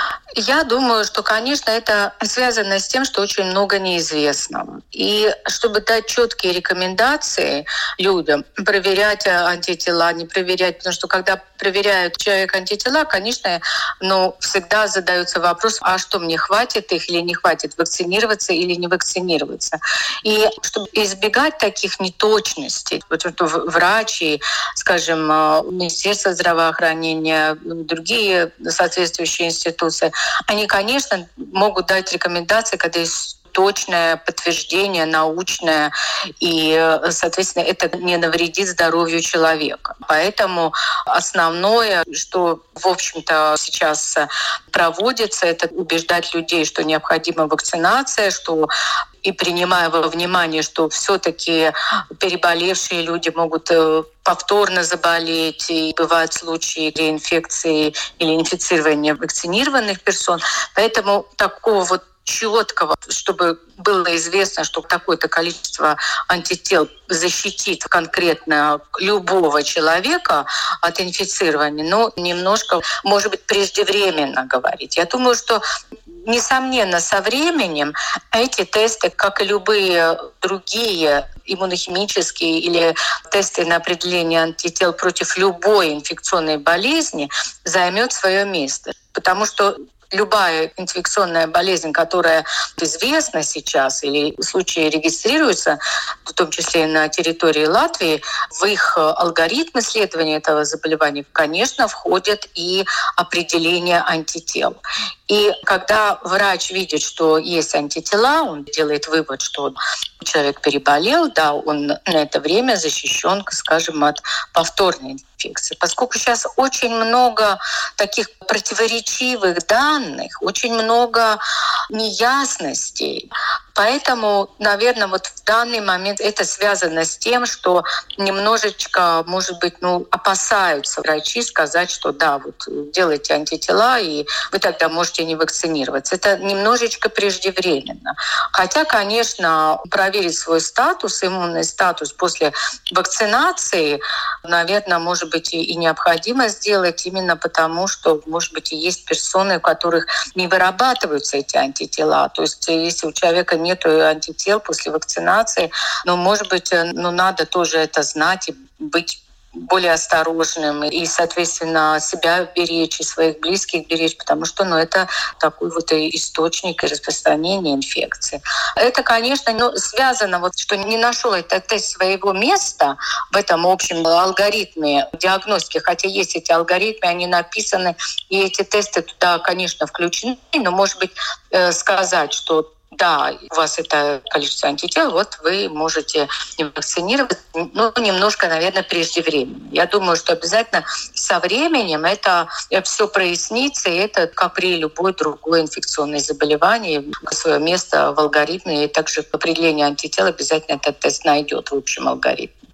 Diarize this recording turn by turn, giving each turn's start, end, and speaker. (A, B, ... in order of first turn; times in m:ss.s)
0:00.4-0:48.7 A
0:49.2-1:15.6 A
1:16.2-2:01.4 A
2:01.9-3:22.5 A